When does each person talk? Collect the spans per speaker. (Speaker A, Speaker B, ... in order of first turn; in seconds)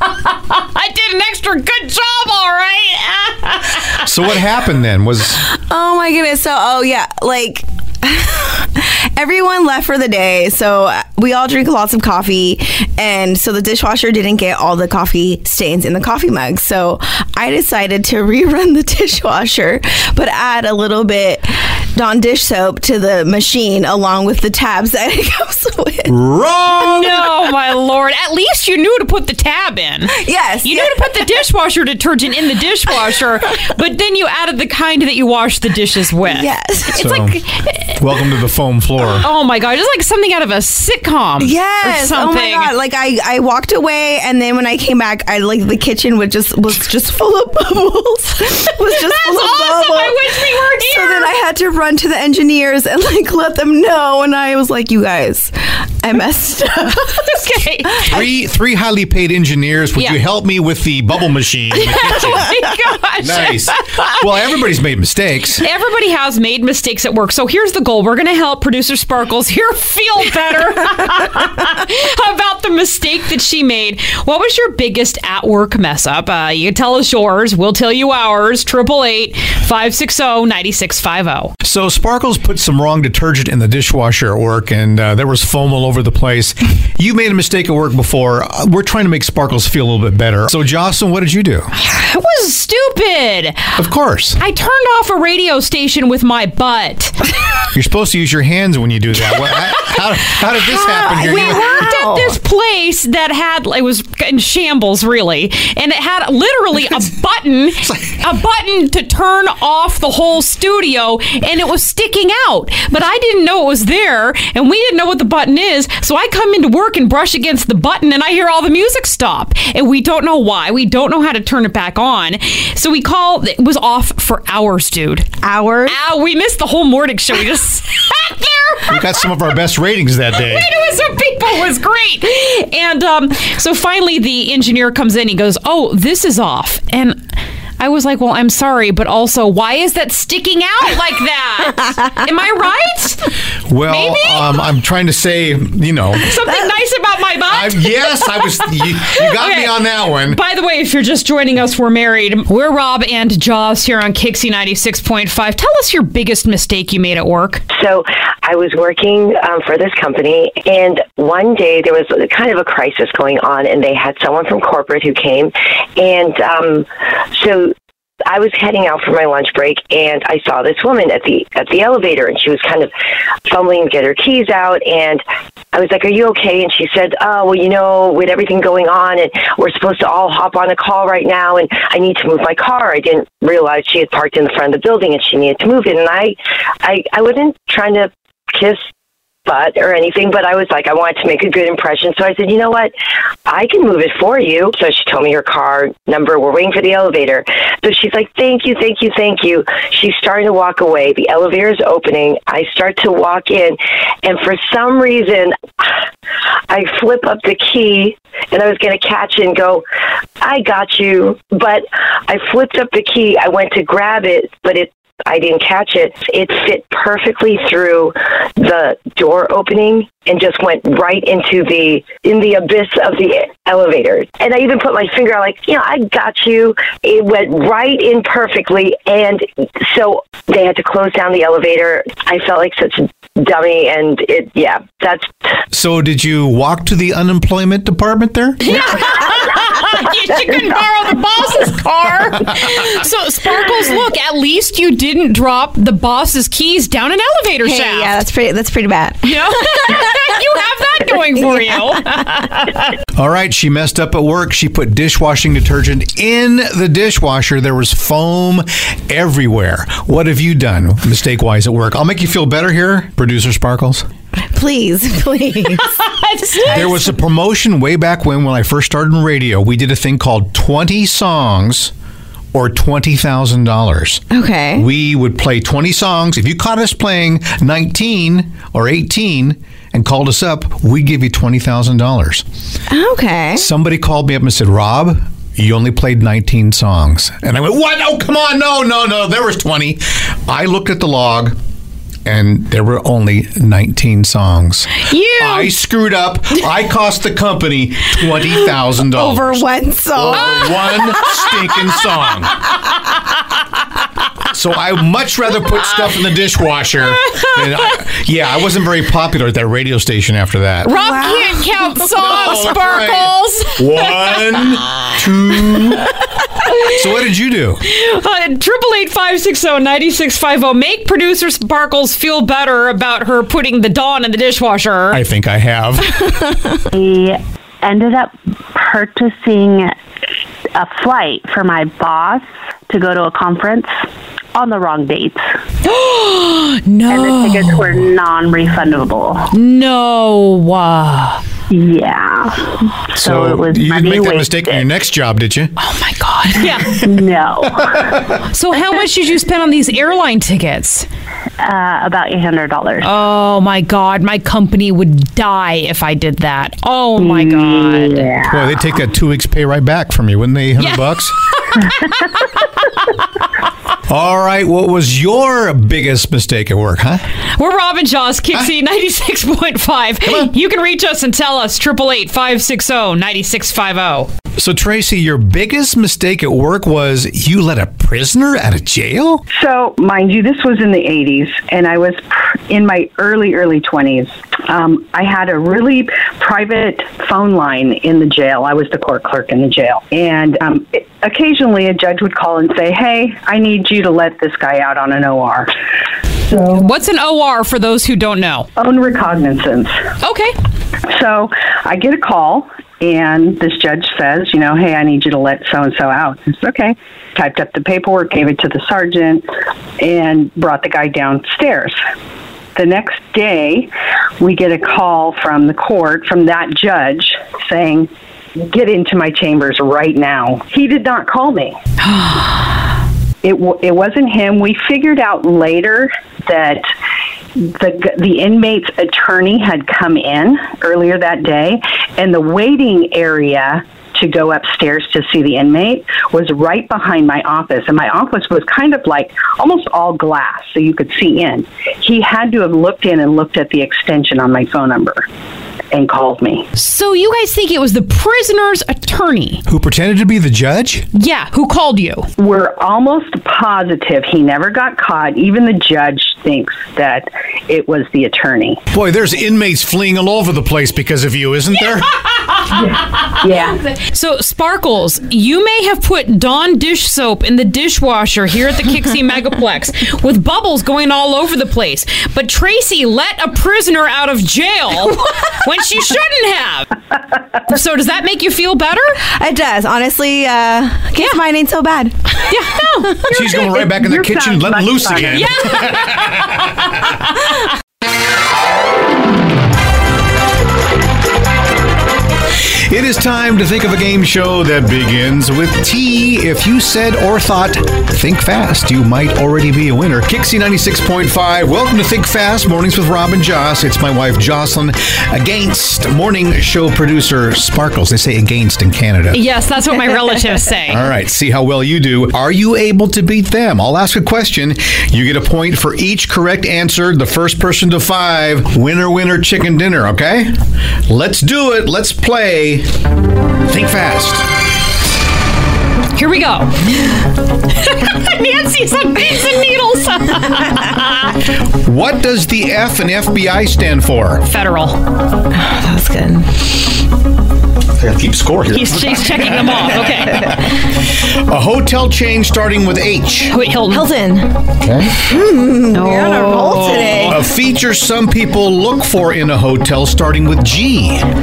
Speaker A: 0.5-4.0, 26.8-37.9, 39.2-42.7, 48.9-51.3, 57.1-58.2, 61.8-64.2, 65.6-81.5, 91.8-93.8, 94.4-97.2, 101.2-129.2, 130.3-137.2, 137.8-143.3, 143.9-144.6, 146.2-157.6, 238.6-248.2, 249.2-252.8, 265.8-267.1, 295.1-295.7, 310.8-314.1, 317.9-325.2, 335.8-338.1, 339.5-341.4, 345.8-347.0, 348.5-351.1, 353.0-358.4, 360.8-362.1, 367.6-374.3, 396.7-398.7, 400.2-400.5, 422.1-422.5, 446.7-449.6, 451.1-452.3, 462.2-476.9, 477.7-479.2, 482.4-483.4, 485.3-486.3, 509.3-511.0, 526.1-526.8, 527.8-531.3, 534.4-535.0, 538.7-540.5, 543.5-544.1, 545.9-547.4
Speaker B: 4.0-5.4, 26.1-27.2, 37.0-37.4, 38.0-39.3, 58.1-62.5, 63.2-65.6, 81.6-91.7, 93.8-94.4, 97.7-101.9, 128.9-130.7, 143.7-146.3, 147.5-150.4, 235.7-238.7, 253.1-264.1, 266.6-271.9, 272.5-274.2, 274.8-282.4, 283.6-291.6, 292.2-302.6, 304.5-310.9, 312.1-316.1, 316.7-317.8, 325.1-326.2, 343.1-345.7, 358.5-361.3, 364.1-367.2, 370.2-370.5, 374.6-379.4, 449.6-451.1, 458.9-462.1, 483.3-486.5, 492.9-509.4, 510.9-520.6, 521.1-522.9, 523.6-524.5, 531.8-534.4, 538.0-543.5, 544.8-545.2, 547.2-551.3
Speaker C: 5.5-26.1, 30.1-31.3, 36.2-37.0, 41.4-57.2, 100.6-102.4, 125.4-126.0, 247.6-250.2, 264.5-265.9, 274.3-274.8, 282.9-283.7, 299.1-301.4, 310.9-311.6, 479.3-482.1, 535.5-536.5, 543.9-544.6, 545.2-547.4
Speaker D: 157.7-167.7, 168.2-172.9, 173.4-188.8, 189.4-192.9, 193.4-205.9, 206.7-209.8, 210.4-235.3
Speaker E: 326.9-329.9, 330.7-333.9, 334.5-335.4, 337.1-339.5, 341.7-344.9, 346.8-348.1, 351.6-353.1, 357.2-358.7
Speaker F: 379.5-395.7, 396.5-396.9, 398.8-400.0, 401.1-409.4, 410.0-412.0, 412.7-421.8, 423.4-426.9, 427.6-445.3, 445.9-446.7, 452.4-458.8, 462.8-463.8, 483.7-485.4